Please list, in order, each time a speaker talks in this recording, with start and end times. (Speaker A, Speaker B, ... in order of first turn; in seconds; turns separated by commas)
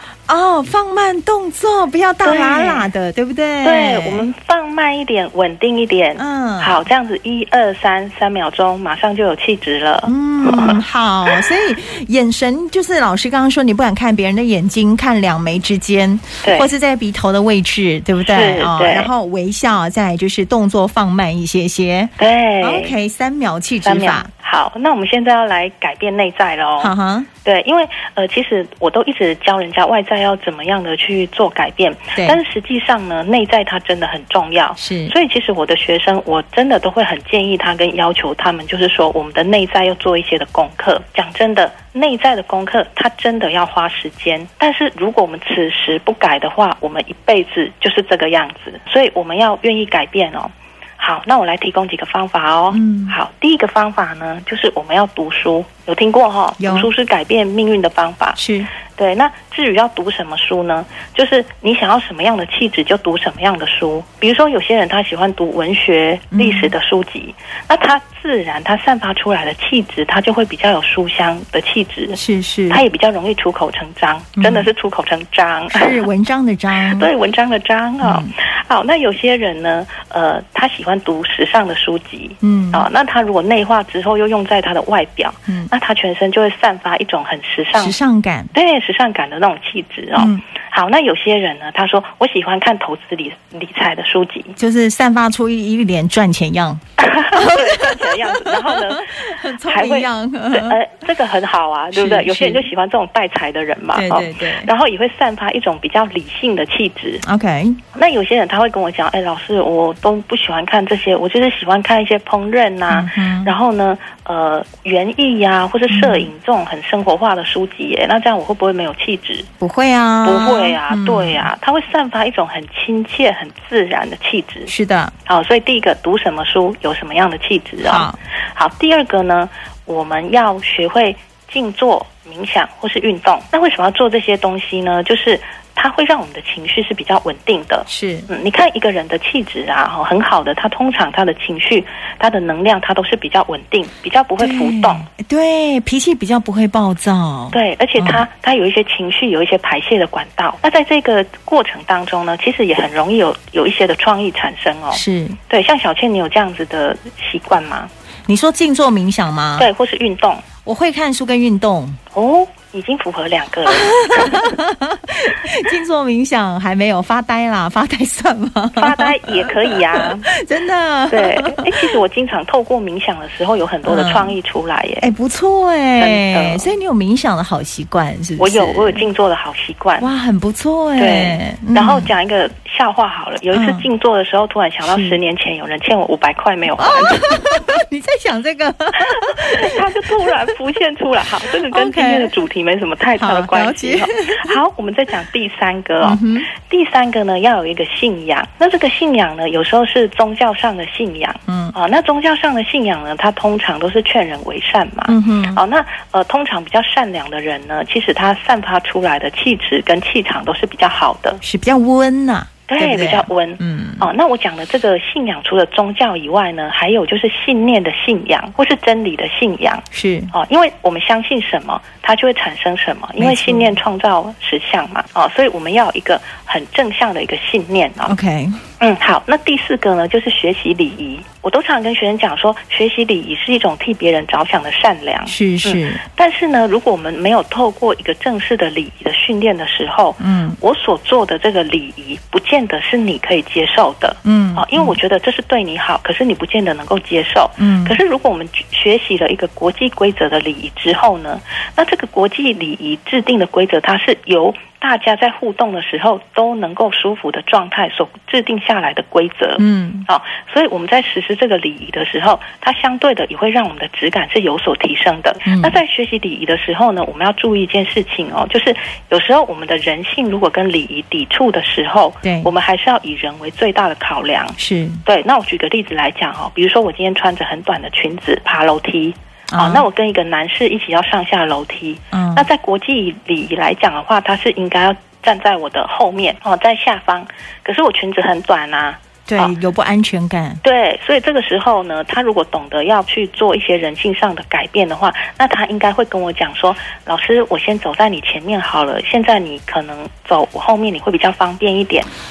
Speaker A: 0.3-4.3, Speaker B: 2.2-2.9, Speaker B: 3.6-11.5, Speaker A: 6.2-6.8, Speaker A: 10.1-24.3, Speaker B: 16.4-16.7, Speaker B: 18.2-19.1, Speaker B: 22.2-23.0, Speaker B: 23.8-26.9, Speaker A: 26.8-27.3, Speaker B: 27.4-58.4, Speaker A: 34.8-35.1, Speaker A: 52.7-53.2, Speaker A: 56.6-56.9, Speaker A: 58.4-58.7, Speaker B: 59.0-72.2, Speaker A: 66.3-66.7, Speaker A: 72.2-72.8, Speaker B: 72.7-76.0, Speaker A: 74.4-74.7, Speaker A: 75.7-77.1, Speaker B: 76.7-88.0, Speaker A: 78.0-78.3, Speaker A: 82.4-82.9, Speaker A: 87.8-88.5, Speaker B: 88.5-94.6, Speaker A: 90.2-90.4, Speaker A: 94.6-96.8, Speaker B: 97.0-107.2, Speaker A: 97.3-100.8, Speaker A: 101.9-102.7, Speaker A: 103.9-104.7, Speaker A: 107.2-107.8, Speaker B: 107.9-119.5, Speaker A: 112.9-113.5, Speaker A: 115.9-116.3, Speaker A: 119.6-121.5, Speaker B: 120.2-124.7, Speaker A: 124.7-125.1, Speaker B: 125.3-145.1, Speaker A: 127.8-128.2, Speaker A: 137.9-138.3, Speaker A: 144.4-148.2, Speaker B: 147.5-157.9, Speaker A: 154.9-155.4, Speaker A: 158.3-159.7, Speaker B: 159.6-160.5, Speaker A: 160.7-162.0, Speaker B: 162.1-164.5, Speaker A: 163.8-171.8, Speaker B: 168.8-170.3, Speaker B: 171.1-175.1, Speaker A: 173.9-174.3, Speaker A: 175.0-179.0, Speaker B: 176.0-176.7, Speaker B: 178.4-180.1, Speaker A: 180.0-182.1, Speaker B: 181.0-187.3, Speaker A: 183.5-183.8, Speaker A: 184.8-185.2, Speaker A: 186.8-189.8, Speaker B: 189.0-211.4, Speaker A: 191.7-192.3, Speaker A: 193.2-194.6, Speaker A: 196.0-196.5, Speaker A: 201.5-201.8, Speaker A: 205.1-205.6, Speaker A: 211.4-214.1, Speaker B: 212.7-228.2, Speaker A: 219.9-220.3, Speaker A: 223.2-223.7, Speaker A: 228.1-228.6, Speaker B: 228.8-289.5, Speaker A: 235.3-236.0, Speaker A: 240.2-240.6, Speaker A: 244.2-245.0, Speaker A: 247.6-248.0, Speaker A: 259.6-260.1, Speaker A: 265.5-265.8, Speaker A: 272.2-272.5, Speaker A: 274.6-275.0, Speaker A: 279.5-279.9, Speaker A: 282.1-282.5, Speaker A: 289.3-290.6, Speaker B: 290.6-302.1